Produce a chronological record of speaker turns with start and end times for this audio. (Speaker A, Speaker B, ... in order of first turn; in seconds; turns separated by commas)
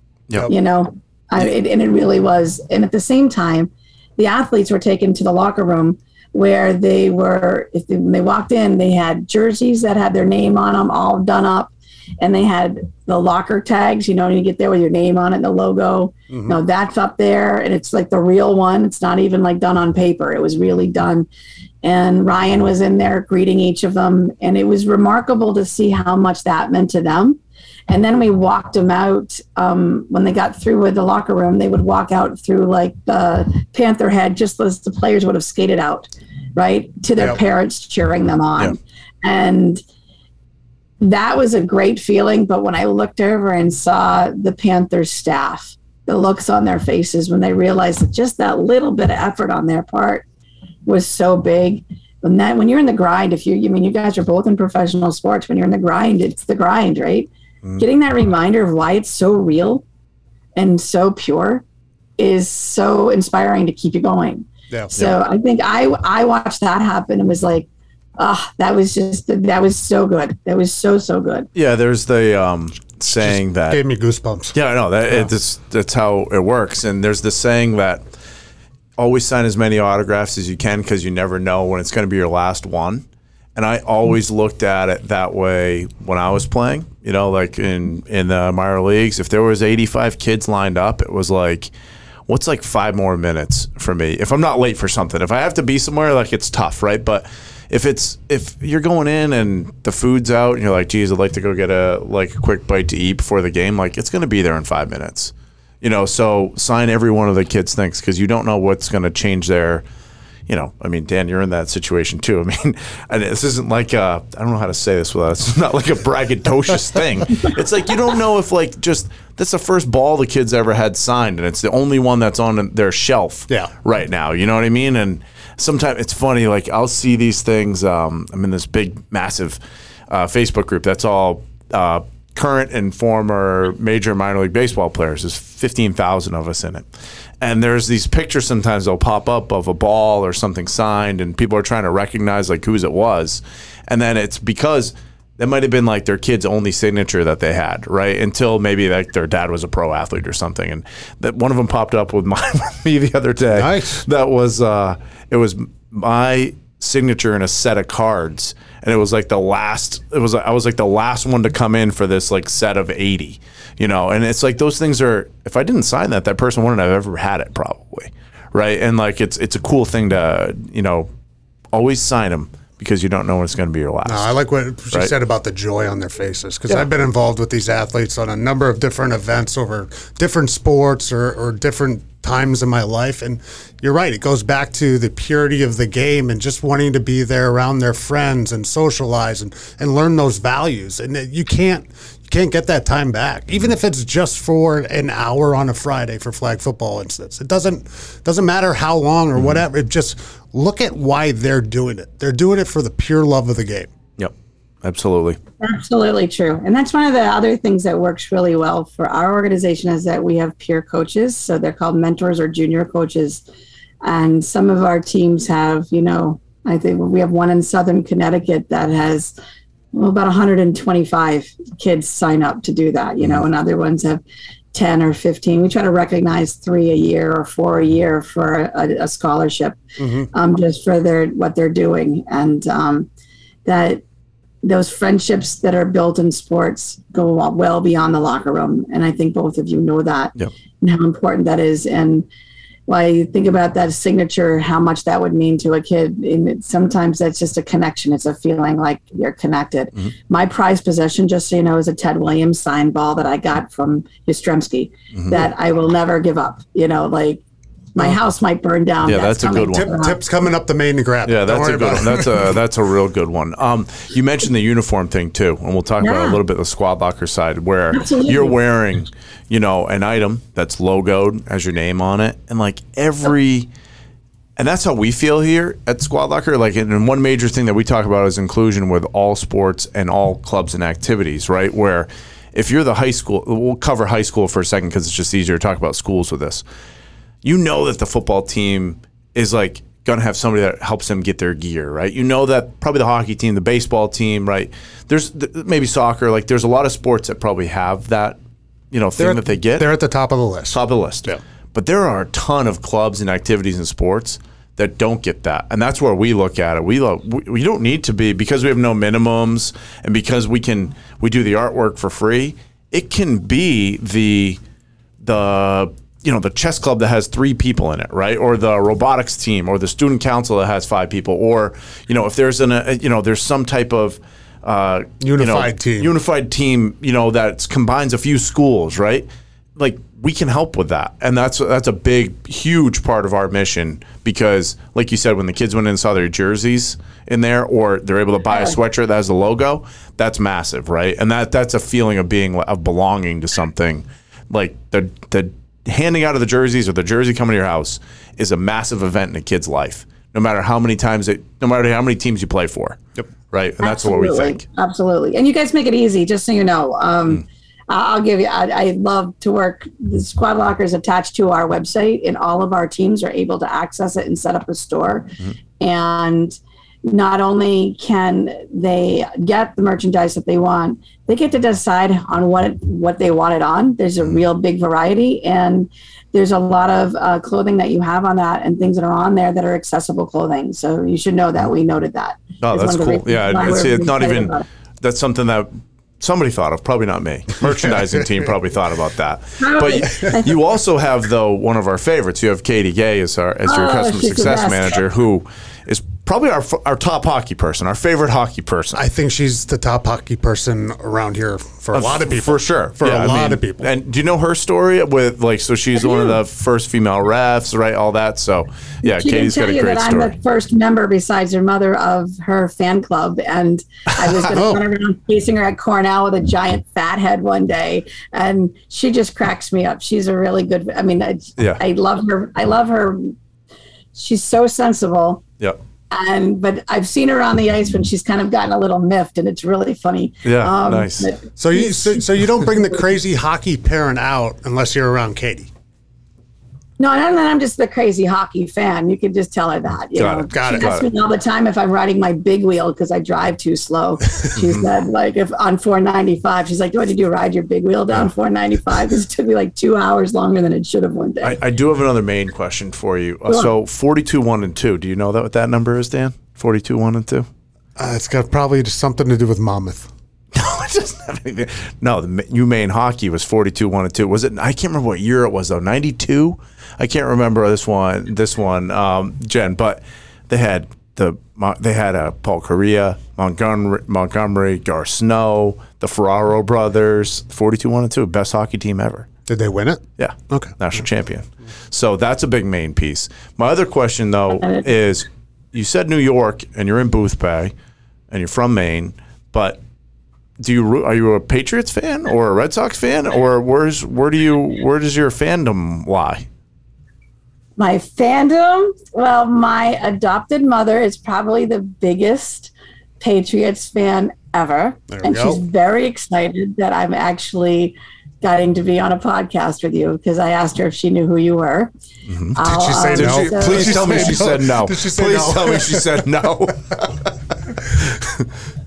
Speaker A: 0.5-21.3, Speaker B: 16.3-16.6, Speaker A: 21.8-39.8, Speaker A: 41.0-50.2, Speaker A: 50.9-59.8, Speaker A: 60.5-61.6, Speaker A: 62.2-67.7, Speaker A: 68.2-71.5, Speaker C: 71.5-73.8, Speaker B: 73.1-74.5, Speaker C: 74.5-78.0, Speaker C: 79.0-83.0, Speaker C: 83.5-91.7, Speaker C: 92.3-109.8, Speaker C: 110.5-129.6, Speaker C: 130.1-136.8, Speaker C: 137.4-171.1, Speaker B: 153.5-154.0, Speaker C: 171.7-174.3, Speaker B: 174.0-203.9, Speaker C: 204.2-205.4, Speaker A: 205.6-213.4, Speaker A: 214.0-219.3, Speaker A: 219.9-224.2, Speaker A: 224.7-229.8, Speaker B: 230.0-230.3, Speaker A: 230.3-233.1, Speaker A: 233.6-234.0, Speaker A: 234.6-242.3, Speaker A: 242.9-257.4, Speaker C: 255.2-255.4, Speaker A: 257.9-260.2, Speaker C: 259.0-259.9, Speaker B: 259.7-262.5, Speaker C: 261.2-273.7, Speaker A: 266.0-266.4, Speaker A: 267.9-268.6, Speaker C: 274.6-286.6, Speaker C: 287.4-298.4, Speaker C: 298.9-299.9, Speaker B: 299.2-301.4, Speaker C: 300.7-314.6, Speaker C: 315.2-354.6, Speaker B: 325.2-326.1, Speaker A: 338.5-338.8, Speaker A: 353.8-384.6, Speaker C: 382.6-399.0, Speaker A: 389.6-390.5, Speaker A: 393.6-395.0, Speaker B: 398.9-403.9, Speaker C: 401.9-410.3, Speaker A: 409.0-423.3, Speaker B: 414.5-414.8, Speaker A: 424.1-425.4, Speaker A: 426.1-432.2, Speaker C: 430.4-431.3, Speaker B: 431.6-435.7, Speaker A: 437.0-451.6, Speaker C: 440.1-441.1, Speaker B: 440.5-440.9, Speaker C: 451.4-457.5, Speaker B: 458.0-460.1, Speaker C: 460.5-479.3, Speaker B: 479.5-480.7, Speaker C: 480.2-487.7, Speaker A: 484.6-484.8, Speaker C: 488.3-489.8, Speaker C: 490.6-496.4, Speaker A: 497.8-511.9, Speaker B: 505.1-505.6, Speaker C: 512.3-512.6, Speaker A: 512.5-514.5, Speaker B: 512.6-516.5, Speaker C: 513.1-517.3